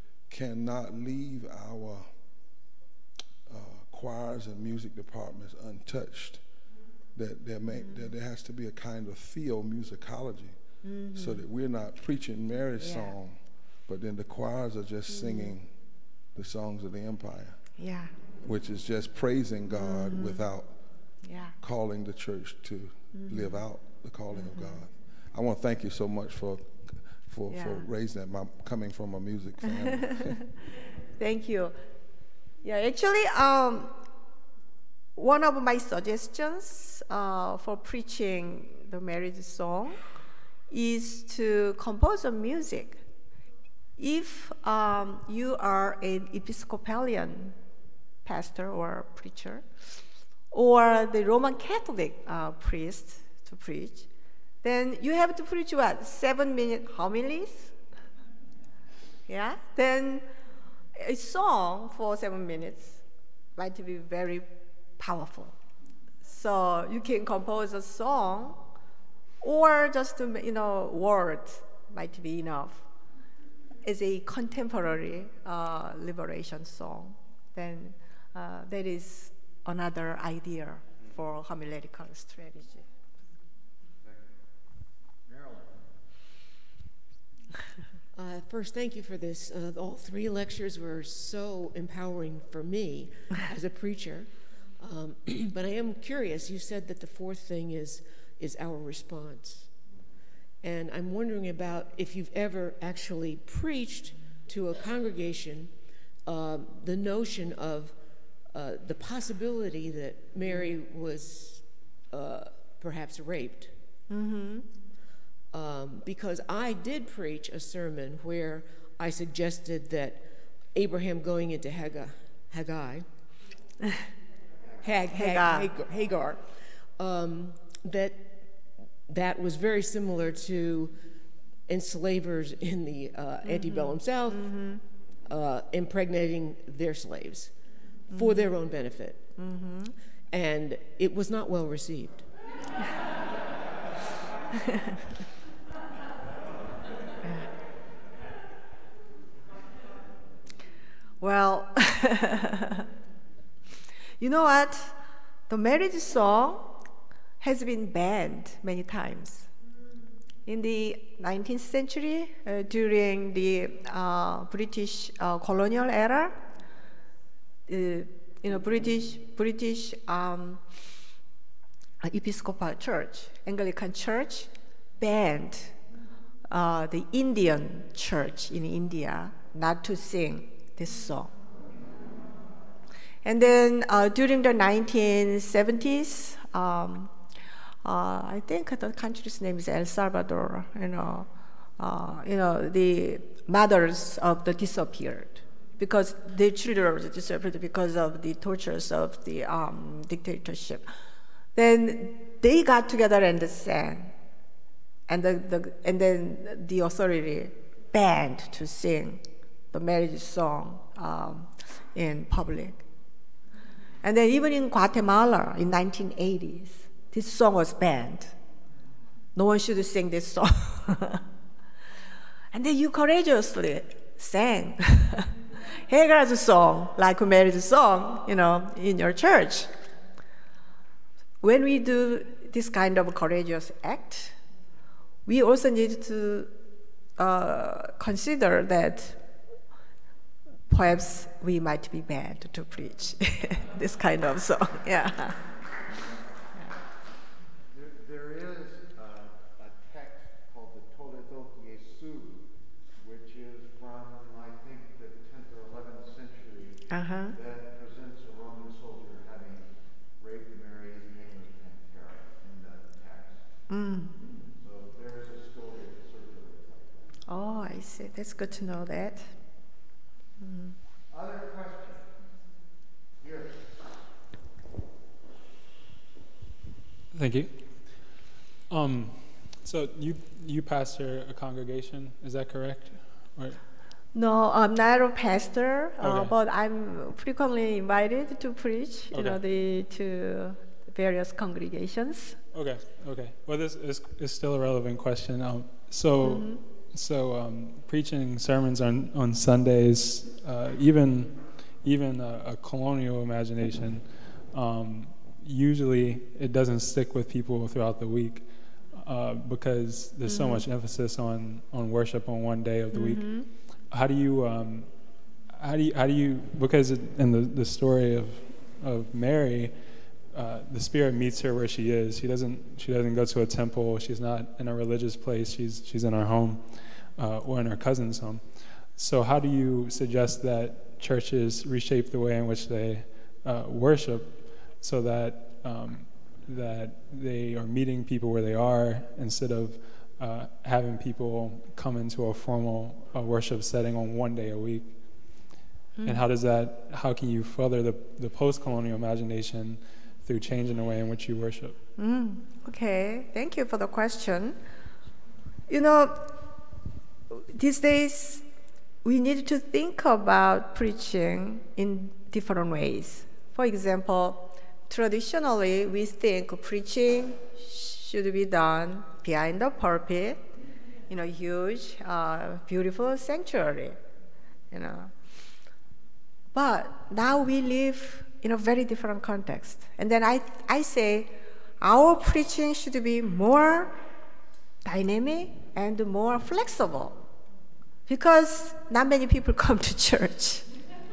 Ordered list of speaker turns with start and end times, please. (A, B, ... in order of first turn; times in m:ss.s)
0:00.3-0:02.1 A
0:03.5-0:06.4 A
0:07.1-0:10.6 A
0:07.7-0:08.1 B
0:10.8-0:11.4 B
0:11.1-0:15.7 A
0:12.8-0:13.2 B
0:15.1-0:15.5 B
0:16.3-0:17.6 A
0:17.8-0:18.1 B
0:18.4-0:20.8 A
0:19.7-0:20.4 B
0:21.2-0:21.5 B
0:21.6-0:30.4 A
0:23.1-0:23.6 B
0:24.3-0:24.8 B
0:27.5-0:27.8 B
0:31.2-0:31.8 B
0:32.6-0:33.9 B
0:35.2-0:40.0 B
0:40.7-0:43.0 B
0:44.0-0:47.6 B
0:48.2-0:49.6 B
0:50.5-0:54.1 B
0:54.6-0:57.7 B
0:59.3-1:00.2 B
1:01.0-1:03.0 B
1:03.6-1:05.6 B
1:06.2-1:08.7 B
1:09.4-1:12.9 B
1:13.8-1:22.8 B
1:24.0-1:24.4 C
1:25.2-1:25.8 C
1:28.1-1:39.7 D
1:40.6-1:45.7 D
1:46.2-1:48.0 D
1:48.5-1:53.8 D
1:54.1-1:54.7 B
1:55.5-2:03.1 D
2:04.8-2:08.5 D
2:05.1-2:05.7 B
2:09.1-2:11.0 D
2:11.7-2:14.5 D
2:13.4-2:14.8 B
2:15.2-2:17.5 D
2:18.1-2:18.5 B
2:18.1-2:19.3 D
2:19.4-2:19.9 B
2:20.3-2:22.3 D
2:27.2-2:27.5 B
2:31.2-2:32.8 B
2:34.2-2:36.8 B
2:37.4-2:39.5 B
2:40.4-2:46.4 B
2:47.7-2:50.6 B
2:52.0-2:55.7 B
2:56.5-3:01.3 B
3:03.2-3:07.1 B
3:07.8-3:20.9 B
3:21.5-3:24.1 B
3:25.1-3:32.8 B
3:34.0-3:38.3 B
3:39.4-3:41.2 B
3:42.5-3:49.7 B
3:51.4-3:54.4 B
3:55.3-3:56.5 B
3:57.2-3:59.2 B
4:00.7-4:05.4 B
4:07.7-4:12.5 C
4:13.0-4:19.6 C
4:16.9-4:17.4 B
4:20.2-4:23.4 C
4:23.7-4:24.1 B
4:24.2-4:27.1 C
4:27.3-4:29.3 B
4:30.4-4:30.7 B
4:31.1-4:32.1 C
4:33.2-4:33.7 C
4:37.1-4:43.6 E
4:44.1-4:52.4 B
4:46.0-4:46.3 E
4:49.1-4:49.4 E
4:52.5-5:45.4 E
4:56.2-4:56.6 B
5:10.2-5:10.7 B
5:12.9-5:13.5 B
5:46.0-5:46.2 B
5:46.0-5:51.8 E
5:52.0-5:54.6 B
5:55.7-5:56.4 B
5:57.3-5:58.4 B
5:59.0-6:10.4 B
6:11.1-6:14.0 B
6:14.7-6:15.1 B
6:16.5-6:23.9 B
6:24.8-6:27.2 B
6:28.1-6:30.6 B